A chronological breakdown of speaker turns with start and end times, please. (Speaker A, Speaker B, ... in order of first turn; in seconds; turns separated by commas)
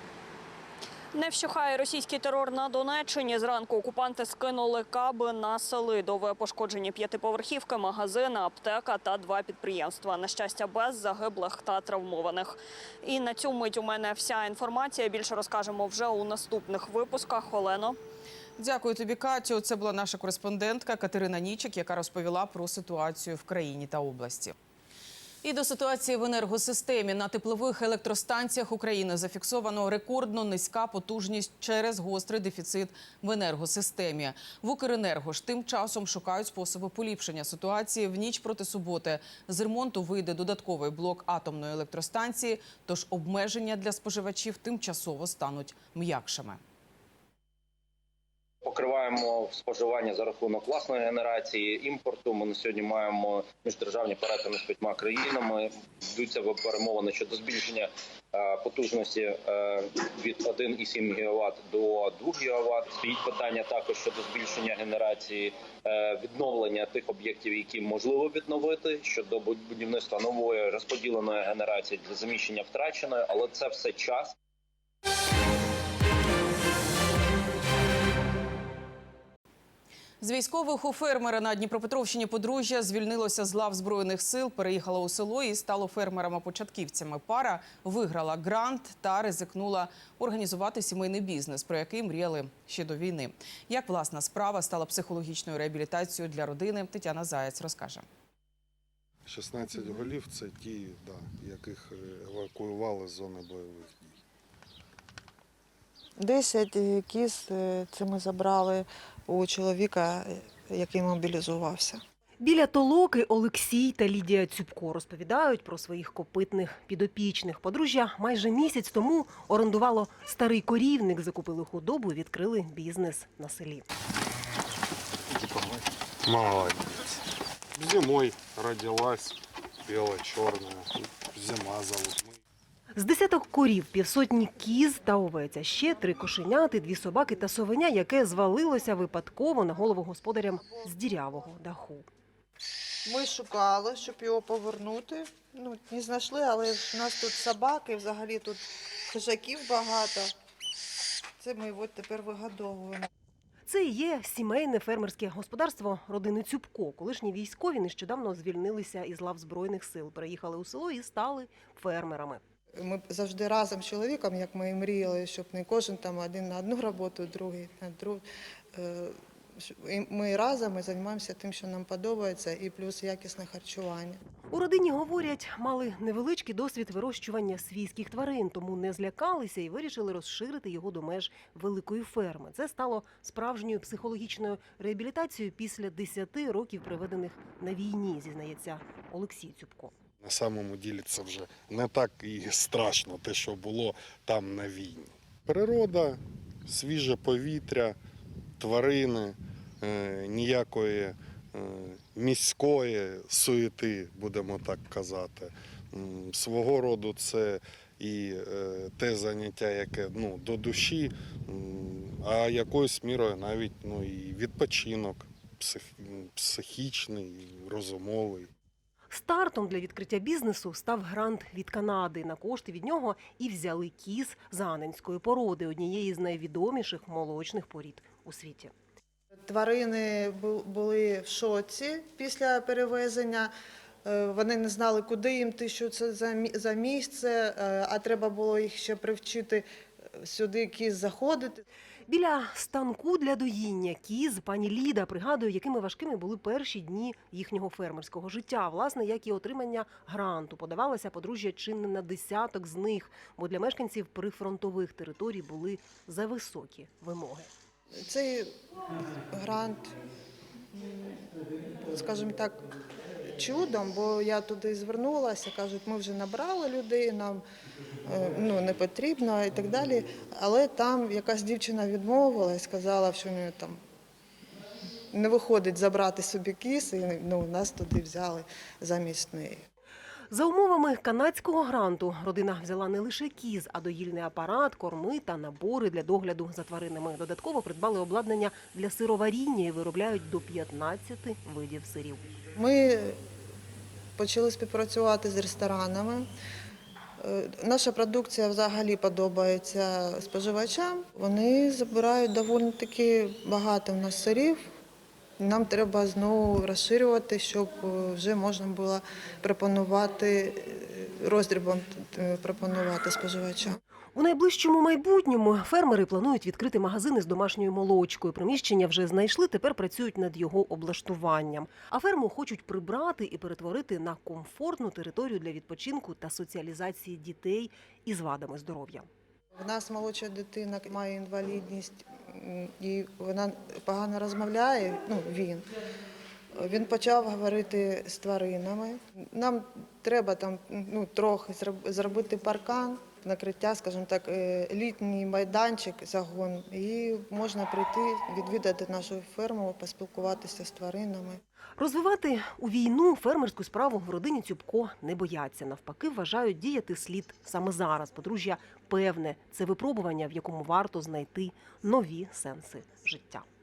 Speaker A: 1.1-18.0, Speaker B: 18.6-24.6, Speaker B: 25.4-46.6, Speaker C: 48.6-74.3, Speaker B: 80.2-98.1, Speaker D: 99.3-104.1, Speaker E: 106.2-112.0, Speaker F: 112.4-123.8, Speaker D: 125.3-127.0, Speaker D: 127.8-132.4, Speaker F: 133.0-142.1, Speaker E: 143.1-150.3, Speaker E: 151.4-153.1, Speaker F: 153.7-162.4, Speaker E: 162.8-168.2, Speaker E: 168.8-174.2, Speaker F: 174.5-189.9, Speaker D: 190.2-198.0, Speaker D: 198.6-218.5, Speaker F: 219.1-228.7, Speaker E: 229.5-233.5, Speaker E: 234.1-239.6, Speaker E: 240.2-241.6, Speaker F: 242.1-257.5, Speaker E: 258.0-258.5, Speaker E: 259.3-259.9, Speaker E: 260.7-261.2, Speaker E: 261.8-262.6, Speaker E: 263.4-267.4, Speaker E: 268.1-273.8, Speaker E: 275.1-279.6, Speaker F: 280.3-292.2, Speaker E: 292.6-293.2, Speaker E: 294.2-296.2, Speaker E: 297.2-304.6, Speaker E: 305.4-313.8, Speaker F: 314.1-329.1, Speaker E: 329.6-335.7, Speaker E: 336.6-351.4, Speaker F: 351.8-363.4